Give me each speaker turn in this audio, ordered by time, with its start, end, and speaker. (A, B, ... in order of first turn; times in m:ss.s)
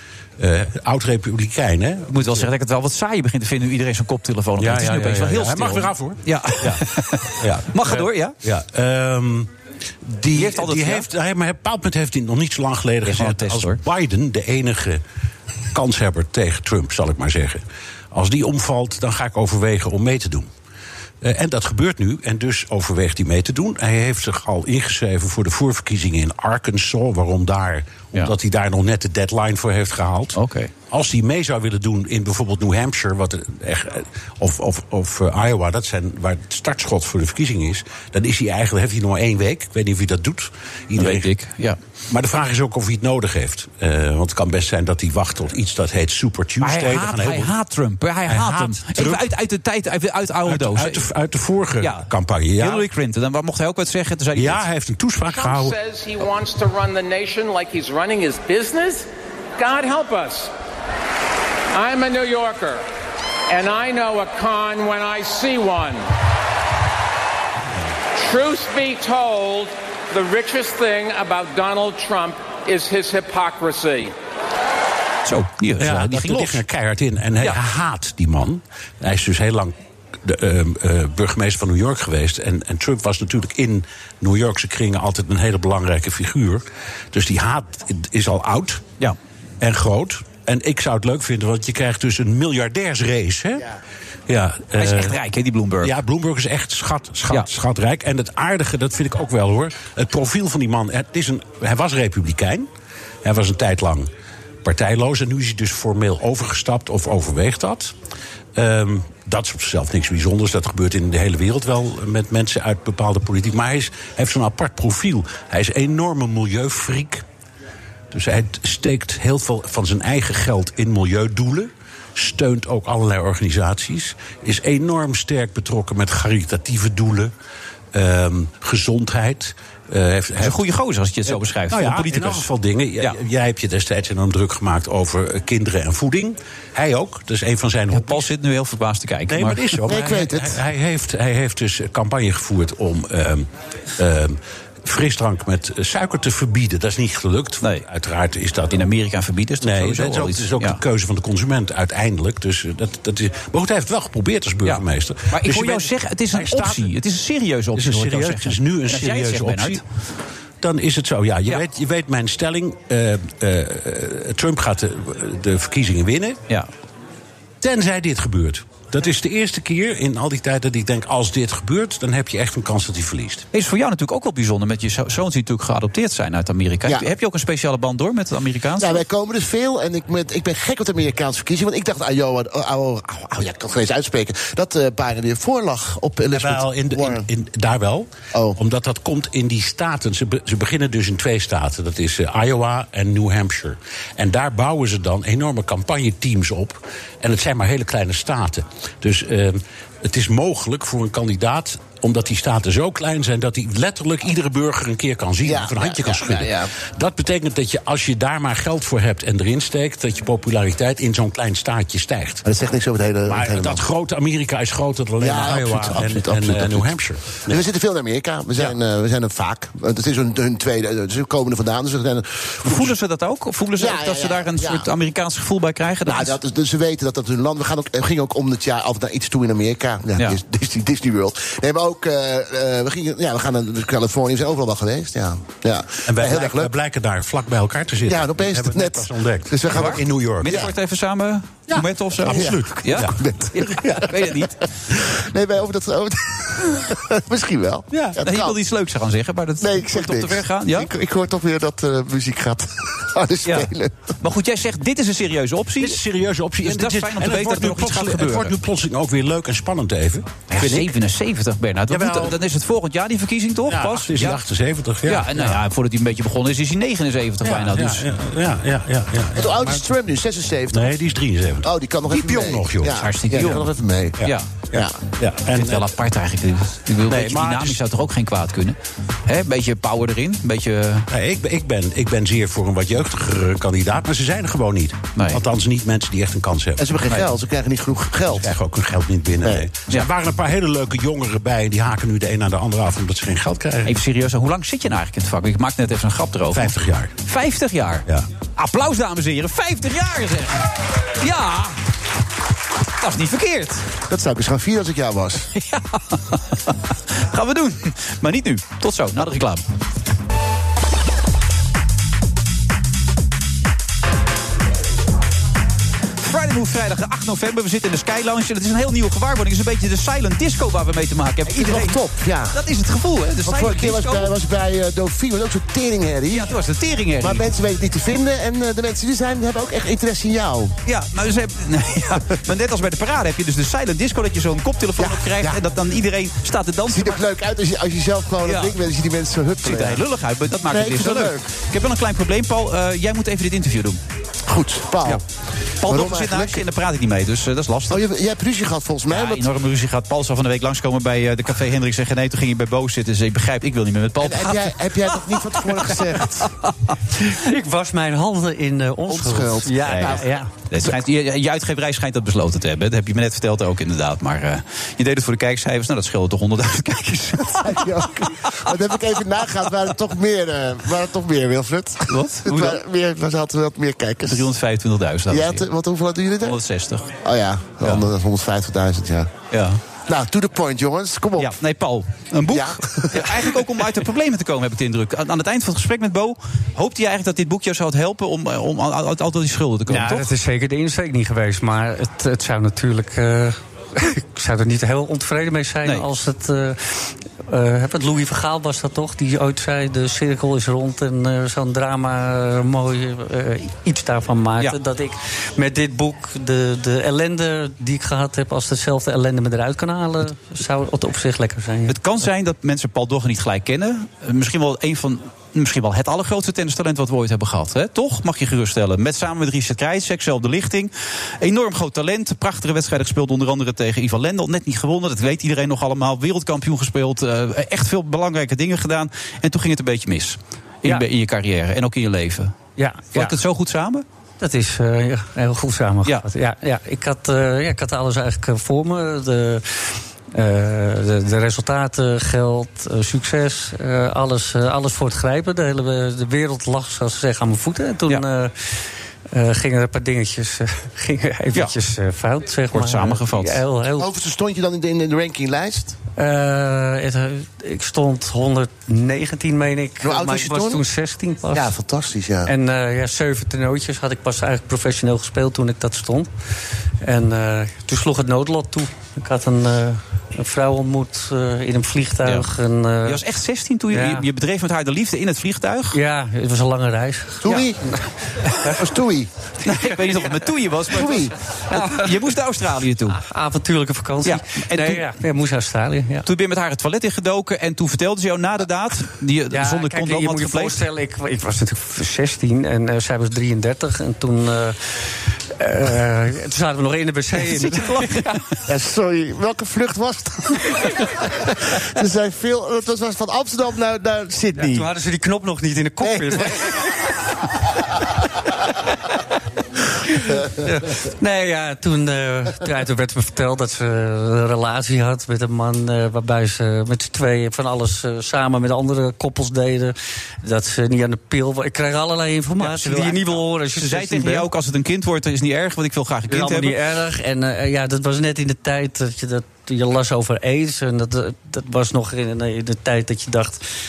0:00.4-0:02.5 A
0:02.1-0:08.4 B
0:04.6-0:06.8 A
0:07.4-0:09.5 A
0:10.0-0:15.0 A
0:10.3-0:11.1 B
0:13.0-0:13.8 B
0:15.7-0:20.5 A
0:21.2-0:41.3 A
0:30.4-0:30.7 B
0:41.0-0:41.8 B
0:42.1-0:47.6 A
0:46.6-0:51.0 B
0:48.3-0:49.2 A
0:50.4-0:52.9 A
0:51.8-0:54.6 B
0:54.4-0:55.8 A
0:55.3-0:59.1 C
0:59.6-1:00.5 C
1:01.7-1:02.8 C
1:03.5-1:06.0 C
1:08.2-1:14.2 C
1:15.2-1:16.6 B
1:15.8-1:28.8 A
1:29.6-1:33.7 A
1:34.3-1:35.2 A
1:34.8-1:36.0 B
1:35.8-1:42.7 A
1:43.2-1:44.1 A
1:44.6-1:47.9 A
1:48.6-1:57.2 A
1:58.1-2:07.3 A
2:07.9-2:10.6 A
2:10.4-2:12.5 B
2:11.3-2:18.3 A
2:17.9-2:20.0 B
2:19.3-2:28.9 A
2:19.9-2:20.6 D
2:28.7-2:30.8 B
2:29.6-2:37.0 A
2:34.6-2:39.8 B
2:37.7-2:39.8 A
2:40.6-2:46.4 A
2:47.6-2:53.4 A
2:53.5-2:59.0 B
2:58.8-3:07.2 D
3:06.3-3:32.4 A
3:25.4-3:26.7 D
3:32.4-3:33.8 D
3:33.3-3:37.6 A
3:35.2-3:36.9 D
3:37.5-3:42.8 D
3:42.6-3:46.4 B
3:43.8-3:44.9 D
3:46.0-3:56.7 D
3:56.1-4:00.7 A
3:58.1-4:00.7 D
3:59.7-4:04.6 B
4:01.7-4:03.2 A
4:02.3-4:04.3 D
4:04.9-4:08.6 D
4:07.9-4:10.9 B
4:09.6-4:14.0 D
4:13.5-4:13.7 B
4:14.2-4:16.0 B
4:15.8-4:20.9 A
4:16.6-4:18.5 B
4:20.5-4:24.4 B
4:21.9-4:22.4 A
4:23.7-4:25.6 A
4:25.1-4:28.0 B
4:27.4-4:29.9 A
4:29.4-4:31.0 D
4:30.7-4:33.6 A
4:31.6-4:34.2 D
4:32.9-4:33.7 B
4:34.2-4:34.5 B
4:34.2-4:35.9 A
4:35.5-4:41.1 B
4:37.1-4:37.8 A
4:41.1-4:47.2 A
4:45.2-4:45.4 B
4:46.8-4:48.5 D
4:48.3-4:54.0 A
4:53.8-4:56.7 B
4:56.5-4:57.1 A
4:57.2-5:01.8 B
5:03.0-5:03.9 B
5:04.1-5:05.5 D
5:05.6-5:09.6 B
5:16.2-5:22.0 B
5:21.5-5:22.6 D
5:22.5-5:24.3 B
5:23.4-5:26.5 D
5:26.3-5:27.5 B
5:27.2-5:30.8 D
5:30.9-5:37.2 B
5:35.0-5:35.6 D
5:36.9-5:40.0 D
5:38.4-5:38.8 B
5:39.6-5:44.0 B
5:40.6-5:41.4 D
5:44.5-5:45.2 D
5:45.8-5:48.0 B
5:45.9-5:46.6 D
5:47.9-5:49.5 D
5:49.1-5:56.7 B
5:54.2-5:56.5 D
5:57.3-6:00.5 E
5:59.1-6:00.3 D
5:59.8-6:07.9 B
6:07.6-6:14.5 D
6:12.1-6:12.8 B
6:14.3-6:15.7 B
6:15.3-6:16.6 D
6:16.4-6:17.1 B
6:17.2-6:19.3 D
6:19.5-6:19.8 B
6:20.1-6:21.5 D
6:21.4-6:30.3 B
6:22.5-6:23.5 D
6:29.9-6:52.0 E
6:51.9-7:12.6 B
7:12.8-7:13.4 E
7:13.1-7:14.0 B
7:14.4-7:28.5 E
7:29.3-7:34.1 E
7:32.7-7:33.6 B
7:34.0-7:36.0 D
7:36.2-7:41.7 E
7:40.0-7:40.8 D
7:41.5-7:42.5 D
7:42.5-7:46.3 E
7:47.0-7:53.2 E
7:53.0-7:56.0 B
7:53.9-7:54.3 E
7:55.9-7:58.1 E
7:57.4-7:57.8 D
7:58.7-7:59.3 D
7:59.6-8:03.2 B
7:59.7-8:00.4 E
8:00.9-8:01.3 D
8:01.7-8:02.3 E
8:03.1-8:06.3 E
8:04.2-8:05.0 B
8:06.3-8:10.8 B
8:09.5-8:14.8 E
8:15.6-8:18.3 E
8:17.4-8:18.3 B
8:18.7-8:20.7 D
8:21.2-8:24.9 D
8:24.6-8:26.8 E
8:26.0-8:26.8 D
8:30.2-8:44.5 E
8:42.6-8:46.8 B
8:46.3-8:53.6 E